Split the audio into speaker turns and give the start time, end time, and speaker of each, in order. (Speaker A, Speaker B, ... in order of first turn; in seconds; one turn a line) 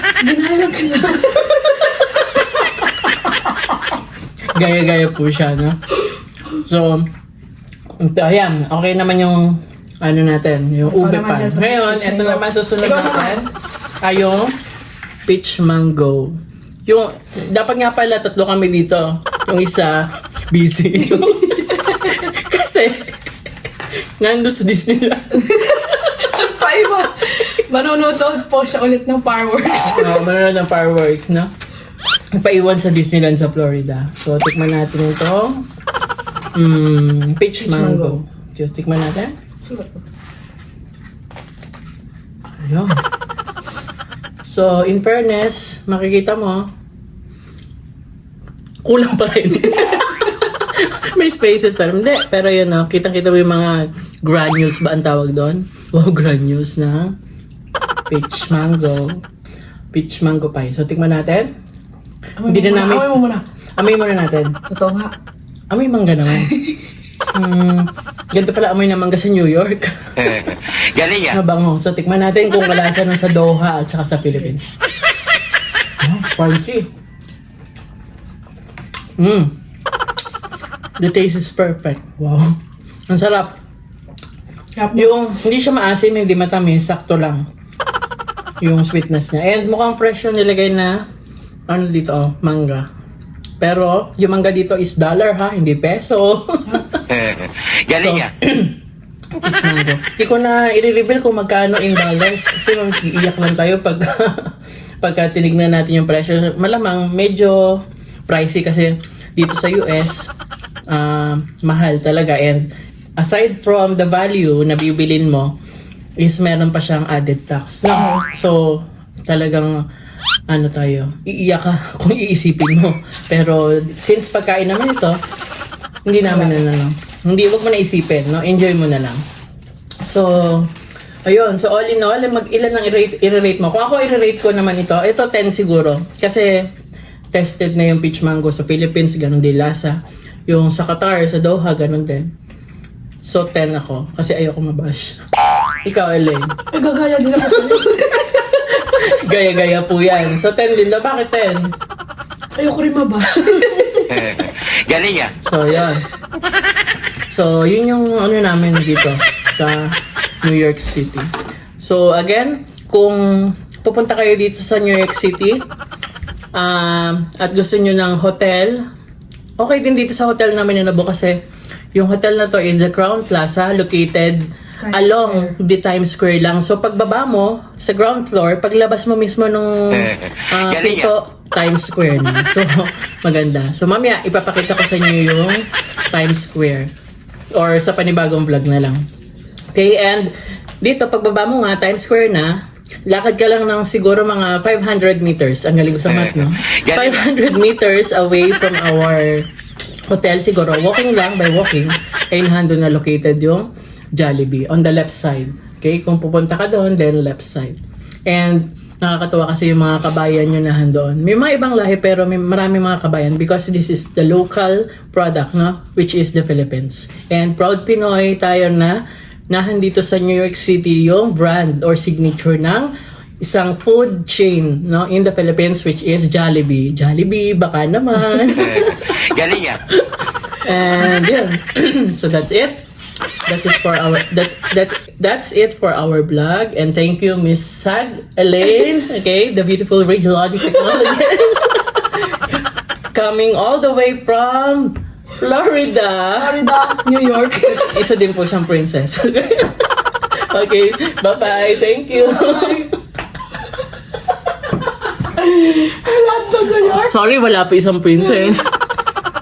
Speaker A: 0.2-2.6
Speaker B: 4.5-5.8
Speaker B: 6.5-7.1
Speaker B: 8.0-13.4
Speaker A: 10.8-13.5
Speaker B: 14.0-14.5
Speaker B: 15.3-16.4
Speaker B: 16.9-23.1
Speaker A: 21.1-21.9
Speaker B: 24.2-25.4
Speaker A: 25.4-30.2
Speaker B: 29.8-31.5
Speaker B: 32.3-35.6
Speaker B: 36.5-39.3
Speaker A: 37.6-38.2
Speaker A: 39.7-40.0
Speaker B: 42.6-43.0
Speaker B: 44.5-46.7
Speaker B: 48.8-57.1
Speaker B: 58.1-59.2
Speaker B: 59.9-61.5
Speaker A: 62.4-63.4
Speaker B: 62.5-63.1
Speaker B: 63.8-64.5
Speaker A: 64.7-65.1
Speaker B: 65.7-66.5
Speaker A: 66.5-66.8
Speaker B: 67.3-70.2
Speaker C: 70.9-71.3
Speaker B: 71.2-74.7
Speaker B: 76.0-76.9
Speaker B: 79.2-79.5
Speaker B: 81.0-82.5
Speaker B: 83.1-83.5
Speaker A: 84.8-85.1
Speaker B: 84.9-87.4
Speaker B: 88.6-91.0
Speaker B: 91.7-92.9
Speaker B: 93.6-97.0
Speaker C: 97.1-98.2
Speaker B: 97.9-98.8
Speaker B: 99.4-110.3
Speaker B: 110.9-115.5
Speaker B: 116.2-119.8
Speaker A: 117.9-118.2
Speaker B: 120.5-125.2
Speaker B: 126.0-129.2
Speaker A: 126.3-126.6
Speaker B: 130.0-130.7
Speaker B: 131.2-136.5
Speaker B: 137.3-142.3
Speaker B: 143.2-145.2
Speaker B: 145.8-146.5
Speaker A: 146.7-148.5
Speaker B: 148.3-151.7
Speaker A: 152.6-154.2
Speaker C: 154.1-155.3
Speaker B: 155.4-156.0
Speaker B: 157.3-165.6
Speaker B: 166.5-168.8
Speaker B: 169.6-171.4
Speaker B: 171.9-186.9
Speaker A: 174.8-175.5
Speaker C: 180.7-181.0
Speaker B: 187.5-189.0
Speaker B: 189.7-199.5
Speaker B: 200.1-232.8
Speaker C: 228.7-229.8
Speaker B: 233.5-242.6
Speaker B: 243.1-246.6
Speaker A: 246.4-248.0
Speaker B: 247.5-252.9
Speaker A: 252.2-252.9
Speaker A: 255.3-257.1
Speaker B: 256.8-258.7
Speaker A: 258.3-258.6